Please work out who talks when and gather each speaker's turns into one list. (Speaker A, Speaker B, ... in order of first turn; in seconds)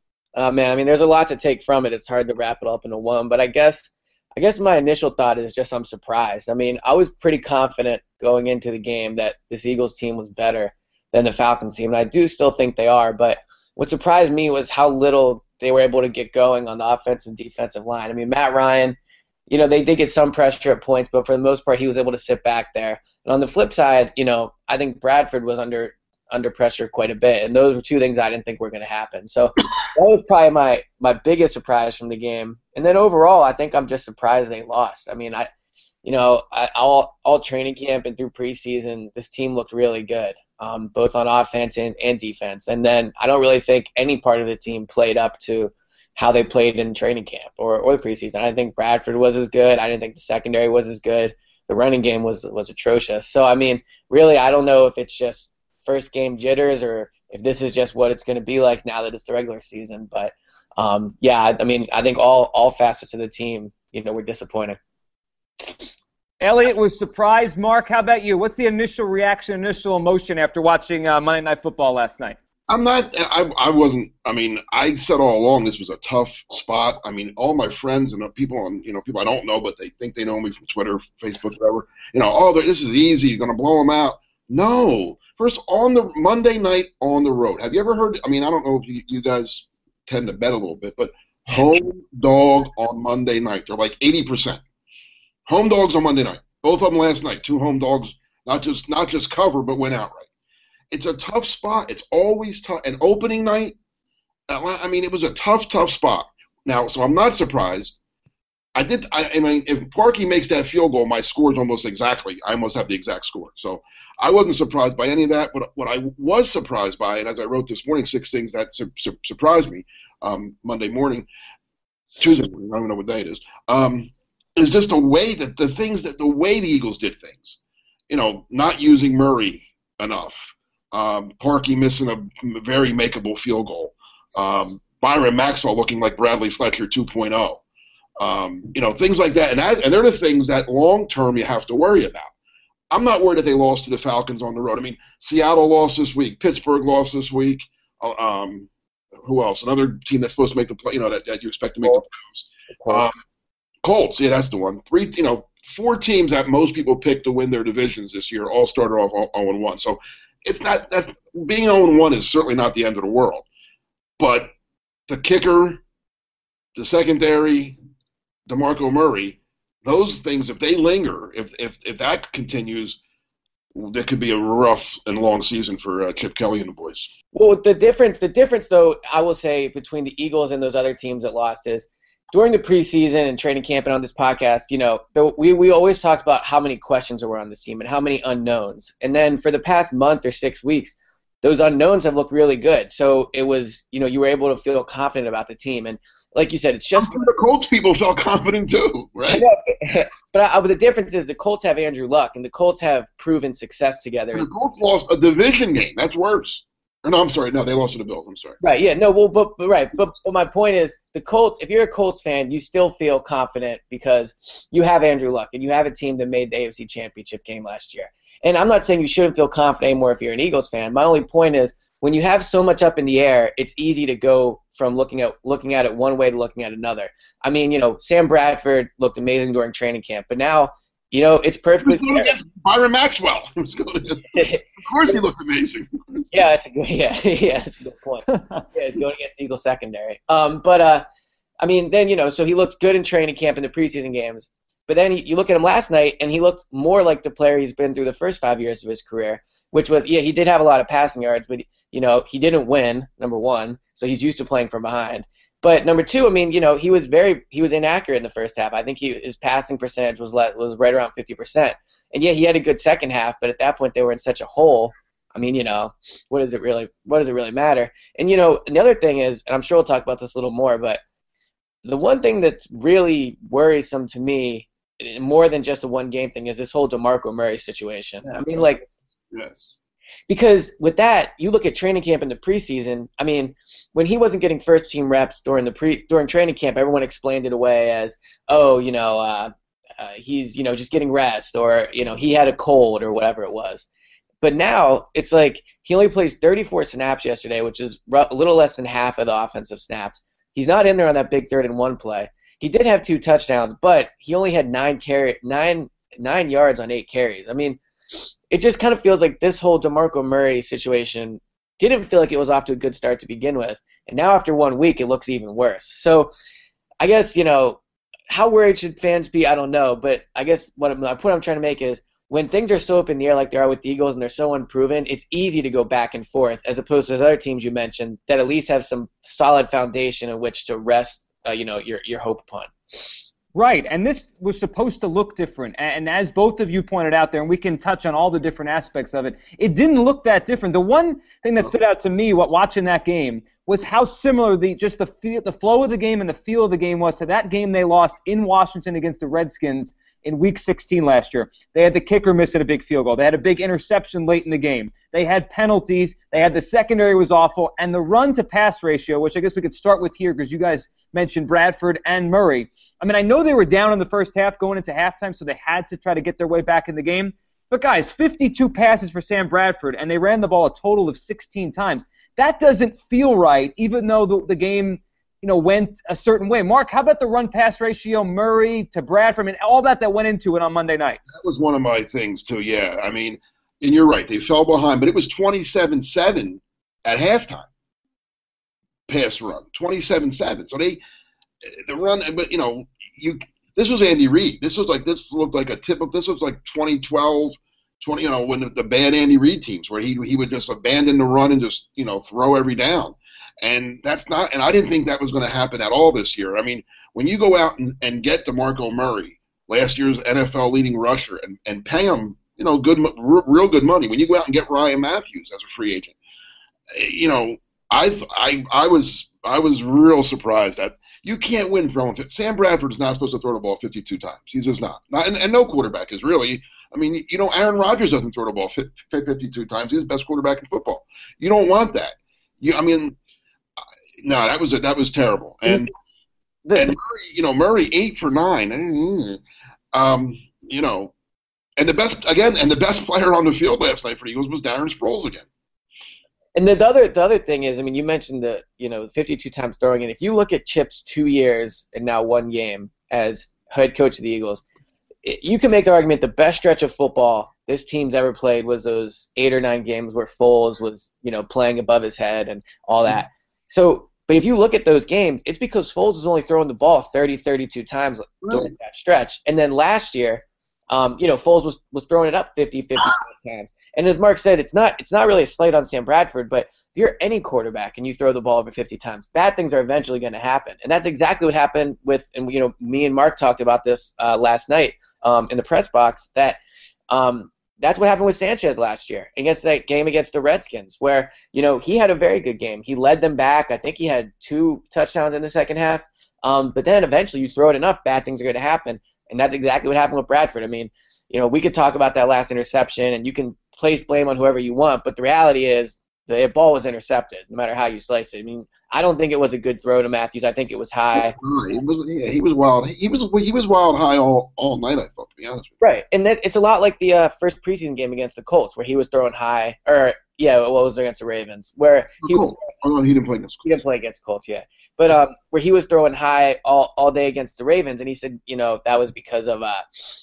Speaker A: 0.3-19.0, 19.5-35.5, 36.0-64.8, 152.7-153.1, 177.3-197.3, 199.3-204.5, 208.6-232.3, 234.3-235.1, 236.3-241.0, 241.6-271.0, 271.8-278.8, 280.3-293.9, 294.4-307.8, 308.5-316.3, 317.0-333.1, 436.6-436.9, 446.5-454.6, 455.2-486.6, 487.1-511.4, 515.8-522.5, 523.6-529.8
Speaker B: 66.4-72.4, 333.5-381.2
Speaker C: 72.7-94.6, 95.5-100.3, 100.9-103.7, 104.5-107.9, 108.7-121.3, 122.2-127.6, 128.1-137.6, 138.2-142.3, 142.9-148.7, 149.2-153.1, 153.8-163.4, 164.2-164.5, 165.1-165.8, 166.7-167.8, 168.5-173.0, 173.7-177.1, 197.0-199.4, 204.3-208.6, 231.8-236.4, 278.2-279.7, 381.3-387.7, 389.1-391.0, 391.6-416.1, 416.9-433.2, 434.2-435.9, 436.7-439.4, 439.9-441.1, 441.8-445.5, 468.4-468.7, 511.1-515.7, 522.2-523.6